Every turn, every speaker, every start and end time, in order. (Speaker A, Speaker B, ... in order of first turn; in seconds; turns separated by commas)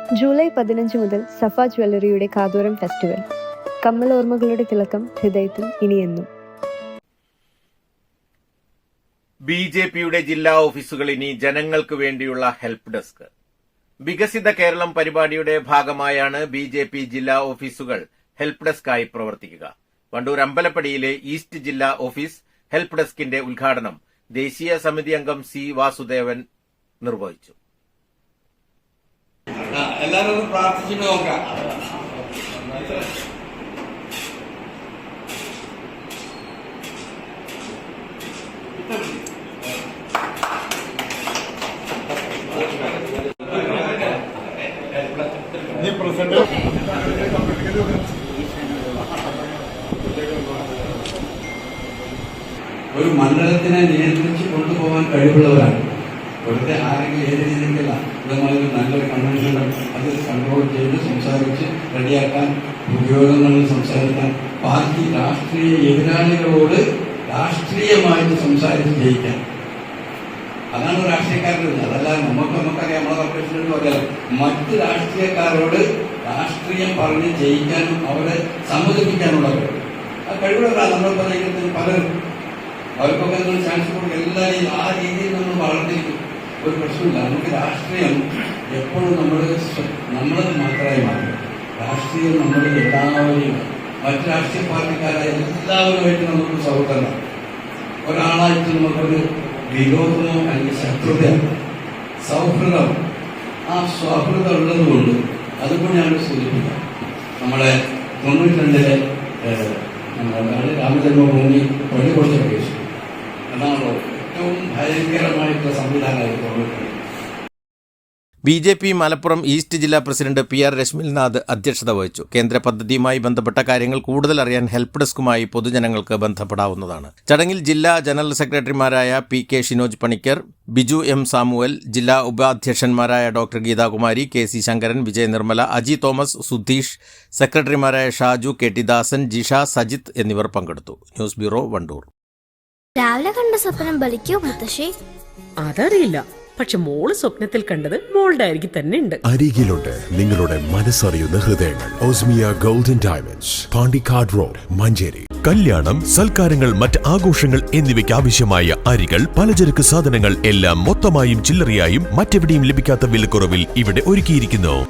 Speaker A: 0.2-3.2, Speaker A: 3.8-6.3, Speaker B: 9.5-13.3, Speaker B: 14.1-26.4, Speaker B: 27.0-27.5, Speaker C: 29.7-31.8, Speaker C: 52.9-55.8, Speaker C: 56.4-69.4, Speaker C: 70.7-79.7, Speaker C: 80.3-82.0, Speaker C: 83.0-88.2, Speaker C: 88.7-97.1, Speaker C: 98.0-101.4, Speaker C: 102.2-103.0, Speaker C: 103.7-106.8, Speaker C: 107.4-107.7, Speaker C: 108.2-112.9, Speaker C: 113.5-116.9, Speaker B: 118.5-142.1, Speaker D: 143.0-144.9, Speaker E: 145.6-149.2, Speaker F: 149.3-155.3, Speaker G: 155.3-164.8